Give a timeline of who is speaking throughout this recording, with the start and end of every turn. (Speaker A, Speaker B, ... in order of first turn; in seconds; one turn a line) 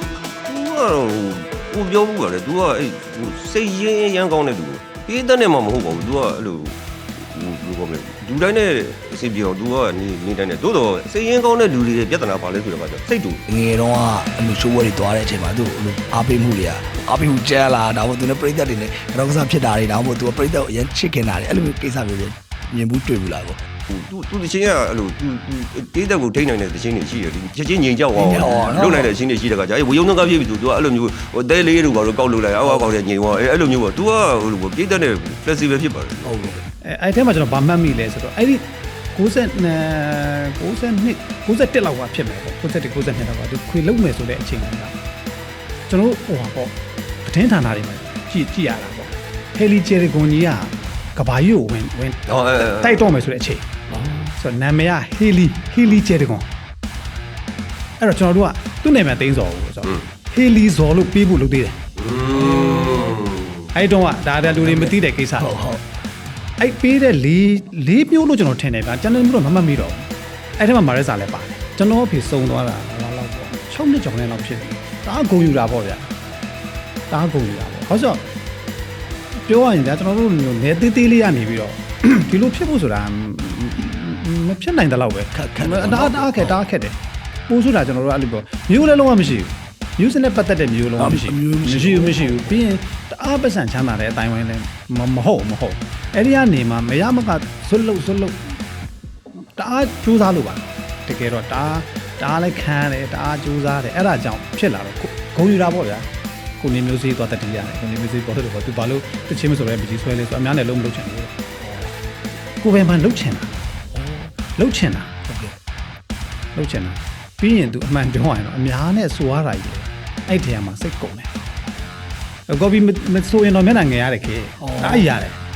Speaker A: 0.5-13.4
Speaker B: 13.5-23.6
Speaker A: 23.9-36.5
Speaker B: 28.1-29.1
Speaker B: 36.2-36.6
Speaker C: 36.8-44.9
Speaker C: 45.9-53.7
Speaker A: 52.3-53.1
Speaker C: 54.3-56.5
Speaker C: 58.0-61.8
Speaker A: 62.0-63.7
Speaker B: 62.5-63.1
Speaker C: 63.7-65.6
Speaker B: 64.4-65.8
Speaker C: 66.6-76.1
Speaker C: 77.1-78.2
Speaker C: 79.4-87.0
Speaker B: 85.3-86.6
Speaker C: 87.5-98.5
Speaker B: 91.0-92.6
Speaker C: 99.3-111.3
Speaker B: 111.6-111.9
Speaker C: 112.6-113.5
Speaker B: 113.9-114.3
Speaker C: 114.5-115.1
Speaker B: 115.3-115.5
Speaker C: 116.5-121.3
Speaker C: 122.5-125.4
Speaker B: 124.6-125.1